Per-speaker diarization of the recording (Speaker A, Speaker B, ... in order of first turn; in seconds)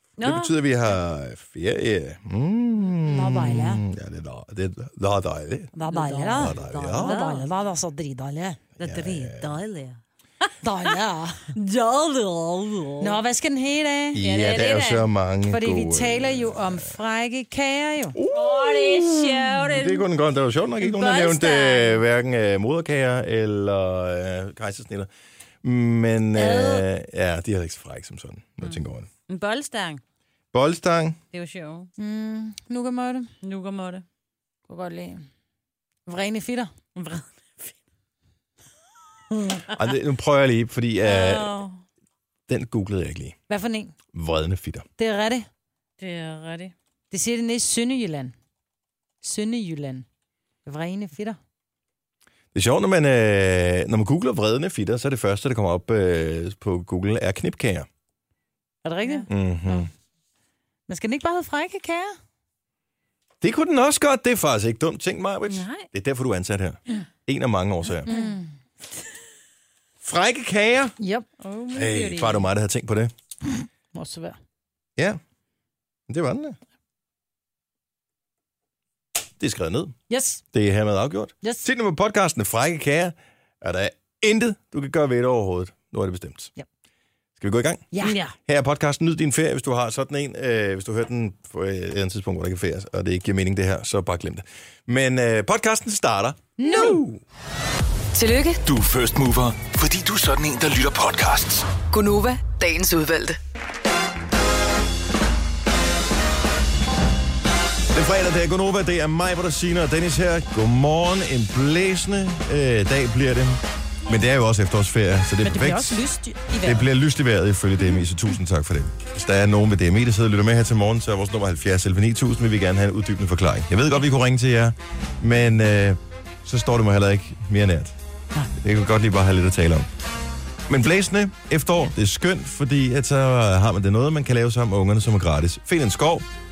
Speaker A: 0.2-0.5, 5.9-7.5, 8.8-10.0, 11.5-13.2, 14.2-15.1, 18.3-20.1, 20.8-22.0, 26.4-26.8, 29.3-30.0, 31.3-31.9, 33.4-34.0, 37.0-37.7, 41.0-41.8, 46.0-46.7, 65.5-65.9, 71.4-72.5
Speaker B: 0.2-5.7, 6.3-7.2, 8.8-9.5, 14.1-16.8, 18.1-25.1, 25.6-29.1, 30.5-31.2, 39.7-41.5, 42.5-43.4, 44.1-44.9, 52.5-57.9, 59.3-59.9, 63.4-68.1, 70.0-71.0, 71.8-73.1, 76.1-76.6, 79.4-80.0, 80.5-86.5, 87.4-97.2, 107.9-116.0, 116.6-128.0, 128.6-129.9, 130.7-136.3
Speaker C: 3.0-3.8, 5.7-8.6, 10.6-11.4, 13.0-14.2, 15.5-18.2, 32.0-33.3, 34.7-35.3, 36.1-36.7, 43.5-43.9, 45.0-45.5, 47.1-48.3, 49.2-50.0, 50.6-51.4, 58.9-59.3, 60.9-62.2, 68.1-68.5, 71.0-71.3, 73.9-74.4, 80.1-80.4, 87.9-88.3, 96.6-97.0, 115.4-116.9
Speaker D: 98.1-98.6, 101.9-103.4
Speaker E: 98.6-101.7